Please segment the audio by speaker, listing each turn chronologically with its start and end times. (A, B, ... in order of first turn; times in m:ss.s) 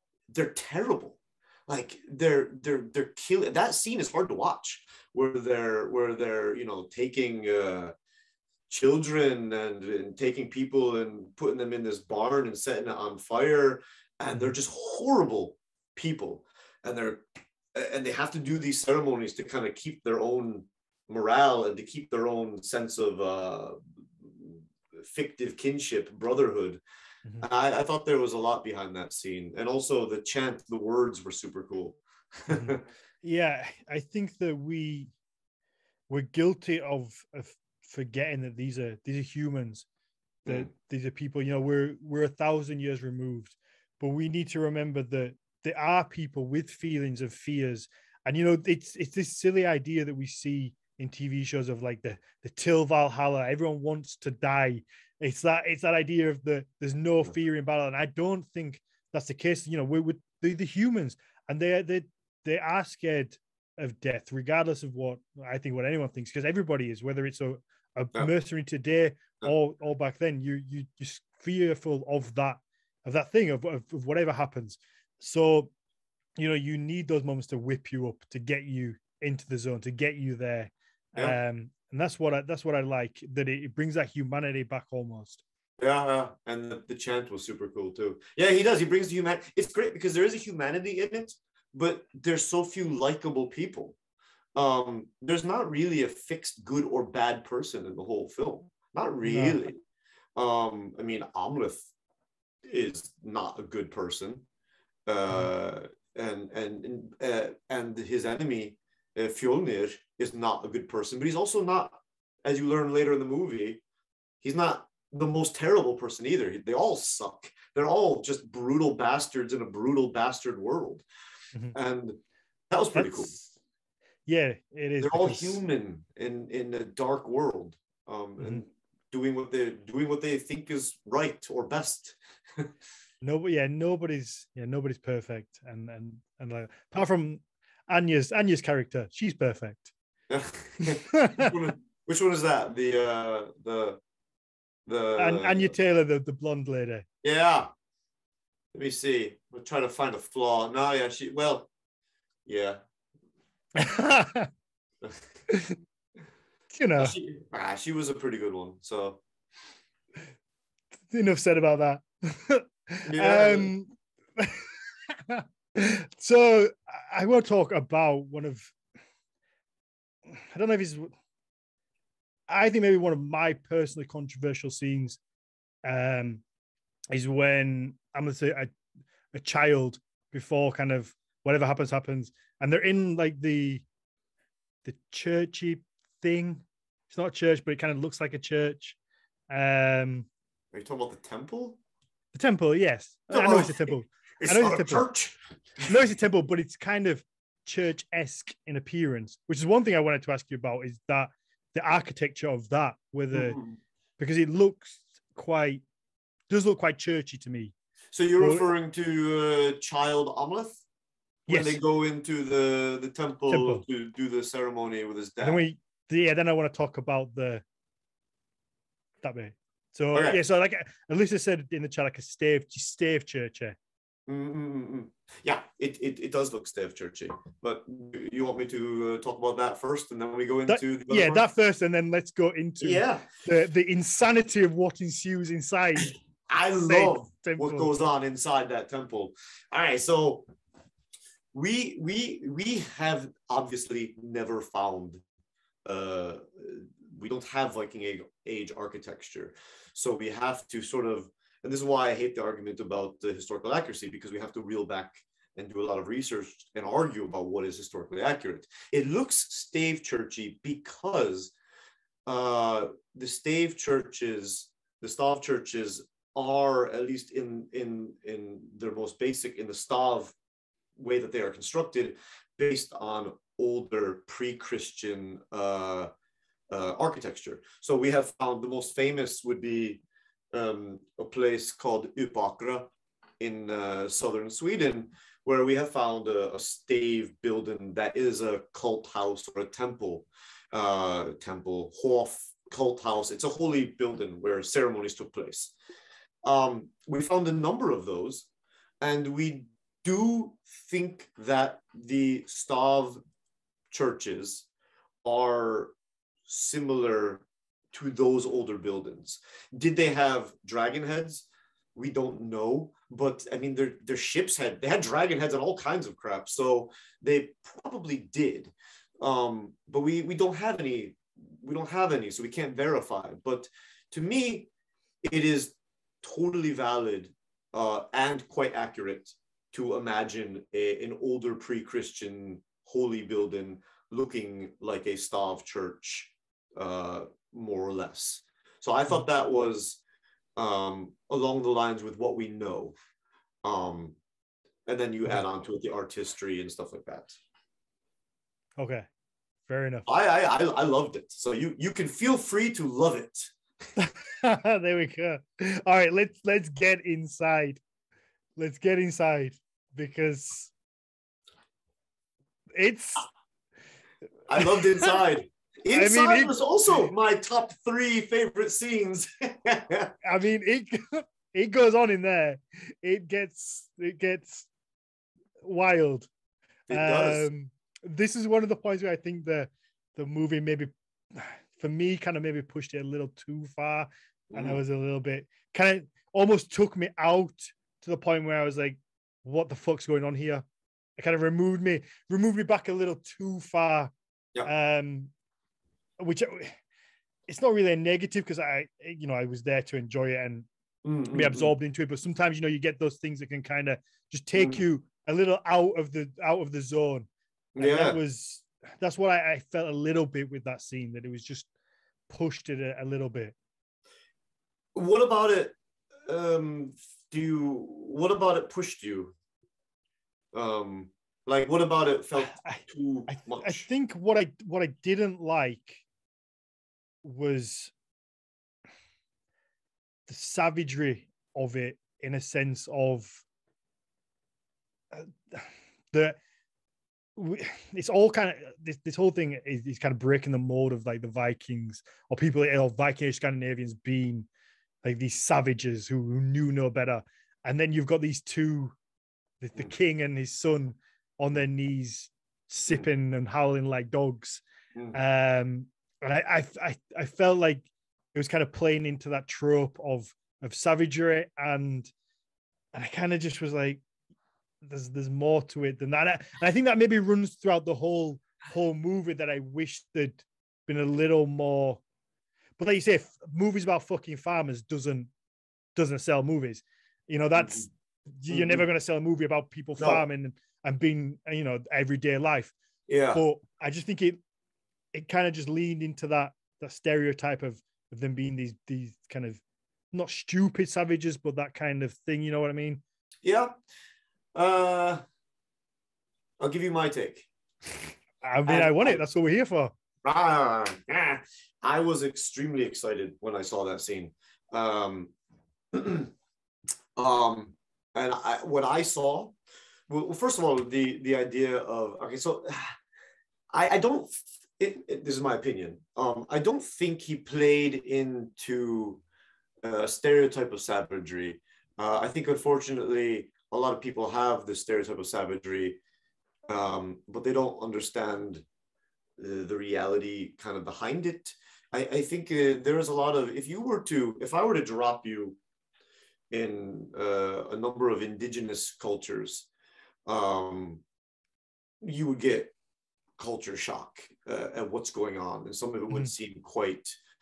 0:00.3-0:07.9 A
0:08.7-0:26.8 A
0:27.4-0:32.8 A
0:32.5-0:35.1 B
0:36.1-0:39.8 B
0:40.5-1:15.7 B
1:16.4-1:25.4 B
1:25.8-1:34.0 A
1:34.6-1:39.8 A
1:39.2-1:39.6 B
1:40.4-1:41.9 A
1:42.6-1:44.4 A
1:45.1-1:53.8 A
1:54.4-2:01.0 A
2:01.7-2:02.2 A
2:02.7-2:03.3 A
2:02.9-2:03.5 B
2:04.3-2:05.6 B
2:05.0-2:12.7 A
2:13.2-2:19.9 B
2:20.3-2:24.0 A
2:20.8-2:21.5 B
2:24.9-2:25.7 A
2:25.2-2:27.0 B
2:27.2-2:27.7 A
2:28.7-2:31.7 A
2:32.4-2:32.8 A
2:33.7-2:34.5 B
2:35.5-2:35.8 B
2:36.7-2:37.1 B
2:37.0-2:39.2 A
2:41.1-2:48.7 B
2:43.1-2:43.7 A
2:50.3-2:51.1 B
2:52.5-2:55.2 B
2:55.8-2:56.4 B
2:57.1-2:58.7 B
2:59.3-3:03.8 B
3:04.8-3:09.0 B
3:09.5-3:10.3 B
3:10.7-3:11.8 A
3:12.3-3:15.1 B
3:13.3-3:15.9 A
3:15.9-3:23.6 B
3:23.3-3:23.8 A
3:24.2-3:25.8 B
3:26.5-3:27.7 B
3:28.1-3:30.8 A
3:28.4-3:28.6 B
3:31.5-3:31.8 B
3:31.5-3:35.6 A
3:33.5-3:33.8 B
3:35.4-3:37.6 B
3:39.2-3:43.8 B
3:40.1-3:40.4 A
3:44.3-3:51.4 A
3:50.7-3:56.1 B
3:52.8-3:53.3 A
3:56.5-4:00.5 A
3:56.9-3:57.9 B
4:01.5-4:05.2 A
4:05.8-4:21.5 A
4:22.3-4:30.3 A
4:30.9-4:36.1 A
4:36.7-4:55.7 A
4:56.4-4:58.5 A
4:59.0-5:03.2 A
5:03.9-5:04.7 A
5:05.2-5:05.9 A
5:06.4-5:24.7 A
5:25.2-5:40.0 A
5:40.6-5:42.9 A
5:43.6-5:44.2 A
5:44.8-5:47.3 A
5:48.8-5:49.0 B
5:49.7-5:50.1 B
5:50.1-5:53.5 A
5:54.0-5:57.8 B
5:58.6-6:00.7 B
6:02.8-6:03.3 B
6:04.5-6:10.1 A
6:04.6-6:05.1 B
6:05.9-6:07.1 B
6:10.2-6:14.7 B
6:15.6-6:16.3 B
6:16.9-6:17.4 A
6:16.9-6:30.6 B
6:24.5-6:24.8 A
6:31.2-6:34.1 B
6:34.6-6:35.3 B
6:36.2-6:36.8 B
6:37.5-6:40.7 B
6:41.0-6:41.7 A
6:41.3-6:47.3 B
6:44.5-6:44.8 A
6:47.7-6:48.2 A
6:47.8-6:51.7 B
6:52.3-6:53.5 B
6:54.9-6:55.7 A
6:56.2-6:59.3 A
7:00.5-7:03.8 A
7:02.4-7:06.0 B
7:07.2-7:07.9 B
7:10.3-7:13.4 B
7:15.1-7:16.4 B
7:17.4-7:24.5 B
7:25.0-7:28.9 B
7:29.6-7:34.6 B
7:35.1-7:42.1 B
7:42.9-7:44.0 B
7:44.8-7:52.0 B
7:52.8-7:55.3 B
7:56.0-8:02.7 B
7:57.6-7:57.8 A
7:58.5-7:58.8 A
8:00.0-8:00.2 A
8:03.1-8:03.4 A
8:03.3-8:04.4 B
8:05.1-8:13.0 B
8:13.4-8:13.7 A
8:14.5-8:15.2 A
8:16.6-8:18.1 A
8:18.4-8:19.9 B
8:18.6-8:19.2 A
8:20.2-8:25.3 A
8:25.9-8:26.3 A
8:27.2-8:29.5 A
8:30.1-8:33.0 A
8:33.7-8:39.2 A
8:39.8-8:46.0 A
8:46.7-8:48.6 A
8:49.4-8:55.6 A
8:56.5-8:59.7 A
9:00.2-9:01.0 A
9:02.0-9:02.7 A
9:03.4-9:07.2 A